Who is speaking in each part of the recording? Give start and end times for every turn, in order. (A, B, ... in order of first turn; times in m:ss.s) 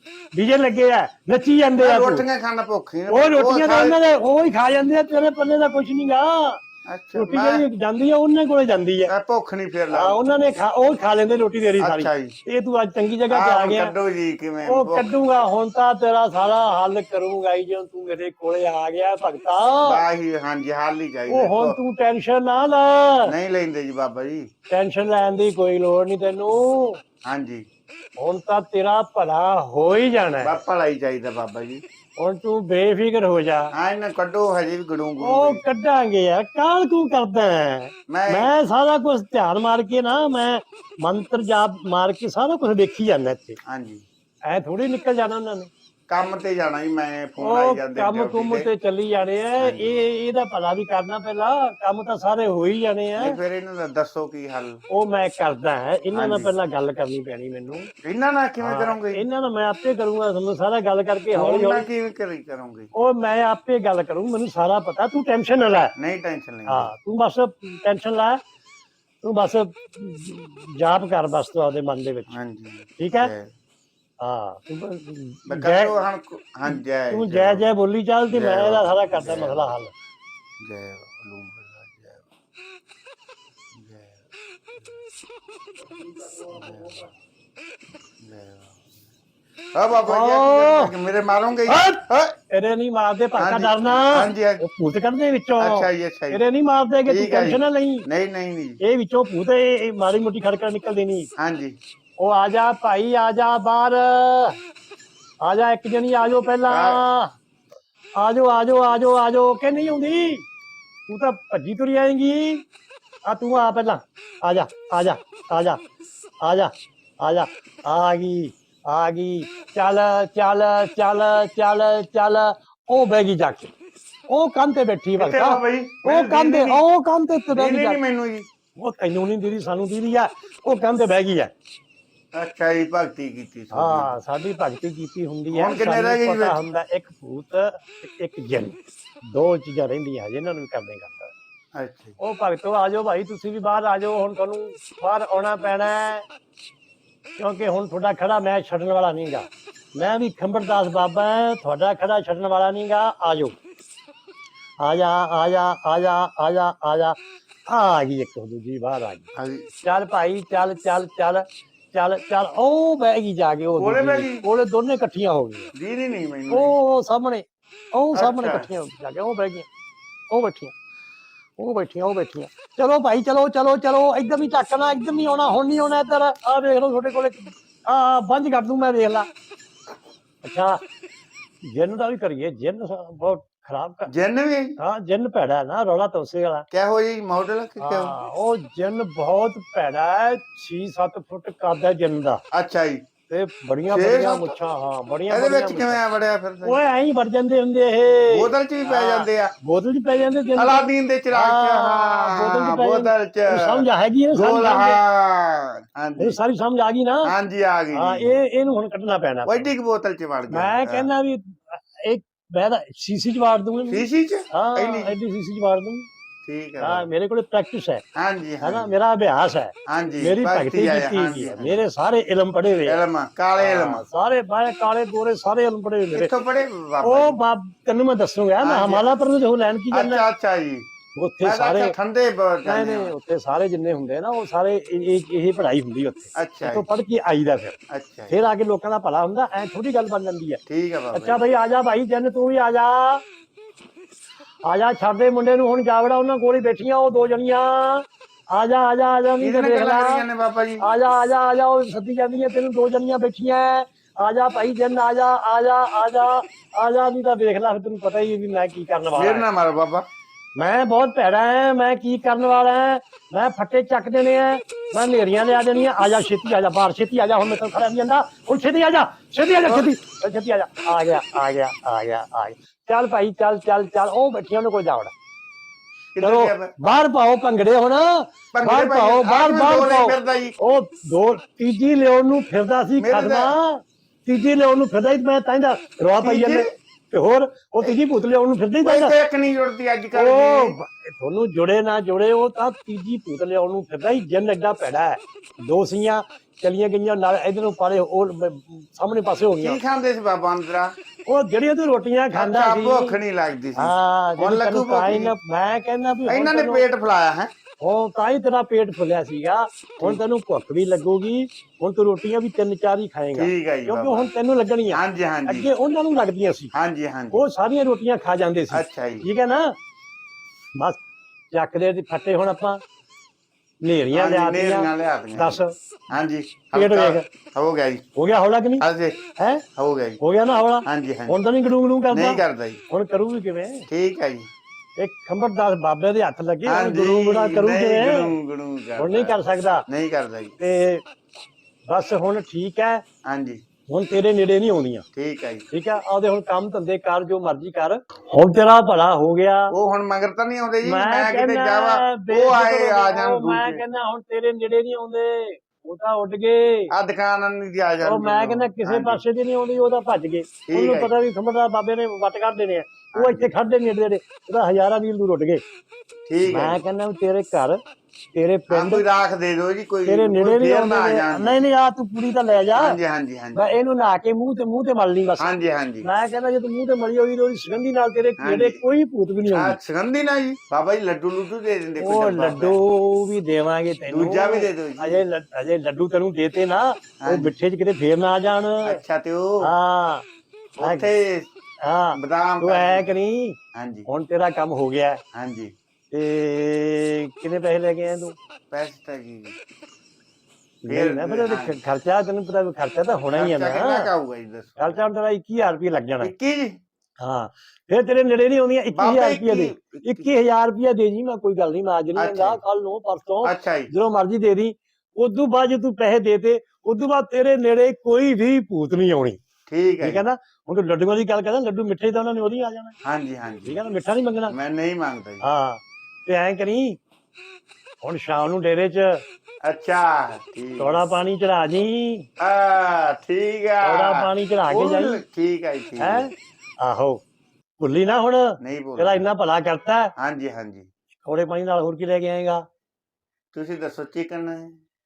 0:00.3-0:02.2 A
0:01.8-0:04.0 B
0:03.1-0:06.6 A
0:06.9-0:07.6 B
0:07.1-0:09.1 A
0:09.1-0:10.2 B
0:09.9-0:13.9 A
0:11.8-0:12.3 B
0:13.3-0:15.1 B
0:14.6-0:20.0 A
0:19.8-0:21.8 B
0:21.3-0:23.3 A
0:23.2-0:24.5 B
0:24.7-0:27.0 A
0:27.2-0:27.6 B
0:28.2-0:30.6 A
0:30.4-0:31.8 B
0:32.2-0:33.7 A
0:33.7-0:35.6 B
0:35.2-0:43.6 A
0:38.1-0:38.5 B
0:43.6-0:44.0 B
0:44.5-0:45.7 A
0:46.1-0:48.7 B
0:47.4-0:53.4 A
0:49.6-0:50.0 B
0:53.2-0:54.8 B
0:54.9-0:57.9 A
0:56.1-0:56.5 B
0:58.0-0:59.2 B
0:58.6-1:01.9 A
1:01.3-1:02.9 B
1:02.9-1:05.9 A
1:06.0-1:06.9 B
1:06.7-1:08.4 A
1:09.2-1:12.3 A
1:12.3-1:13.5 B
1:13.0-1:13.3 A
1:14.2-1:16.0 A
1:15.5-1:17.7 B
1:16.7-1:19.9 A
1:18.3-1:19.7 B
1:20.6-1:22.2 B
1:23.7-1:24.2 B
1:26.5-1:27.0 B
1:28.2-1:28.8 B
1:29.7-1:32.3 B
1:30.0-1:30.9 A
1:31.7-1:38.0 A
1:33.4-1:34.6 B
1:35.6-1:36.4 B
1:37.0-1:38.8 B
1:38.8-1:41.3 A
1:41.4-1:41.8 B
1:42.2-1:44.6 A
1:45.4-1:47.3 A
1:46.7-1:47.0 B
1:48.2-1:50.4 A
1:51.1-1:52.6 A
1:53.3-1:55.8 A
1:56.4-2:03.7 A
2:04.3-2:08.0 A
2:05.2-2:06.8 B
2:07.5-2:08.5 B
2:08.8-2:11.5 A
2:12.3-2:14.1 B
2:13.7-2:21.3 A
2:15.5-2:16.6 B
2:21.8-2:22.1 B
2:22.2-2:26.2 A
2:27.4-2:33.5 A
2:34.8-2:37.2 A
2:37.7-2:39.3 A
2:39.4-2:39.6 B
2:39.8-2:45.7 A
2:43.8-2:44.4 B
2:45.7-2:46.7 B
2:46.5-2:49.7 A
2:48.1-2:48.7 B
2:50.3-2:50.7 A
2:51.6-2:59.3 A
3:00.4-3:00.8 A
3:01.6-3:04.1 A
3:04.1-3:04.8 B
3:04.8-3:06.6 A
3:06.7-3:08.2 B
3:07.8-3:12.4 A
3:12.5-3:13.0 B
3:13.3-3:16.0 A
3:13.9-3:14.6 B
3:15.3-3:16.8 B
3:16.6-3:20.8 A
3:18.3-3:19.5 B
3:20.6-3:26.4 B
3:21.3-3:25.0 A
3:26.2-3:27.3 A
3:27.3-3:28.4 B
3:27.9-3:29.7 A
3:29.4-3:31.1 B
3:30.5-3:36.1 A
3:33.9-3:35.1 B
3:36.4-3:37.1 B
3:36.8-3:38.0 A
3:38.2-3:38.9 B
3:38.6-3:43.0 A
3:39.9-3:41.8 B
3:42.8-3:44.0 B
3:43.6-3:46.3 A
3:46.1-3:47.4 B
3:47.0-3:50.2 A
3:48.6-3:49.1 B
3:49.9-3:50.8 B
3:51.2-3:51.9 A
3:51.4-3:53.1 B
3:52.6-3:57.8 A
3:56.4-3:56.9 B
3:57.9-3:58.3 B
3:58.3-4:00.6 A
4:00.7-4:01.4 B
4:01.1-4:03.2 A
4:04.7-4:10.2 A
4:09.4-4:10.9 B
4:10.8-4:19.4 A
4:19.1-4:20.1 B
4:20.6-4:35.1 A
4:36.2-4:36.7 B
4:36.2-4:49.1 A
4:38.5-4:40.6 B
4:43.0-4:43.5 B
4:46.2-4:46.7 B
4:48.8-4:50.8 B
4:50.1-4:59.8 A
4:59.6-5:00.9 B
5:01.3-5:03.2 A
5:02.3-5:05.4 B
5:03.8-5:06.8 A
5:06.2-5:07.5 B
5:07.8-5:16.7 A
5:13.3-5:14.3 B
5:14.9-5:15.7 B
5:16.7-5:17.4 B
5:17.3-5:19.8 A
5:18.7-5:19.2 B
5:21.5-5:22.8 A
5:23.8-5:25.7 A
5:24.1-5:25.6 B
5:26.1-5:28.0 B
5:26.7-5:27.2 A
5:28.1-5:28.8 A
5:28.8-5:29.2 B
5:29.4-5:29.6 A
5:29.8-5:30.2 B
5:30.2-5:33.8 A
5:30.8-5:31.4 B
5:32.1-5:32.8 B
5:33.9-5:34.5 B
5:35.0-5:38.3 A
5:36.6-5:39.3 B
5:39.0-5:39.8 A
5:39.9-5:40.5 B
5:40.6-5:41.0 A
5:41.9-5:43.0 A
5:43.2-5:43.6 B
5:43.9-5:45.0 A
5:45.1-5:45.6 B
5:45.7-5:49.7 A
5:49.7-5:53.8 B
5:50.8-5:56.9 A
5:56.9-5:59.2 B
5:58.0-6:05.6 A
6:00.7-6:01.1 B
6:03.1-6:03.5 B
6:06.3-6:06.8 B
6:06.4-6:07.8 A
6:08.3-6:09.0 A
6:08.7-6:11.6 B
6:10.0-6:13.0 A
6:12.7-6:13.6 B
6:13.6-6:15.5 A
6:15.4-6:16.0 B
6:16.0-6:19.8 A
6:18.4-6:18.8 B
6:19.5-6:22.8 B
6:22.0-6:29.0 A
6:24.1-6:25.2 B
6:27.2-6:27.5 B
6:28.8-6:29.7 B
6:29.6-6:30.2 A
6:30.8-6:31.5 B
6:30.8-6:31.1 A
6:31.8-6:33.6 A
6:32.1-6:33.0 B
6:33.7-6:34.1 B
6:34.1-6:35.2 A
6:35.3-6:35.7 B
6:36.1-6:38.4 A
6:38.7-6:39.6 B
6:40.8-6:44.1 A
6:40.9-6:41.8 B
6:43.3-6:45.0 B
6:44.8-6:46.3 A
6:46.2-6:46.8 B
6:47.2-6:59.4 A
6:48.9-6:50.3 B
6:52.1-6:52.6 B
6:53.4-6:53.9 B
6:59.7-7:00.2 B
7:00.0-7:02.9 A
7:03.0-7:03.8 B
7:03.6-7:04.5 A
7:04.5-7:05.4 B
7:05.4-7:07.0 A
7:08.0-7:09.2 A
7:09.6-7:10.9 B
7:10.8-7:12.3 A
7:12.4-7:16.3 B
7:13.8-7:15.2 A
7:16.0-7:17.2 A
7:17.8-7:20.1 A
7:18.6-7:19.2 B
7:20.2-7:20.9 B
7:21.2-7:22.6 A
7:23.5-7:24.8 B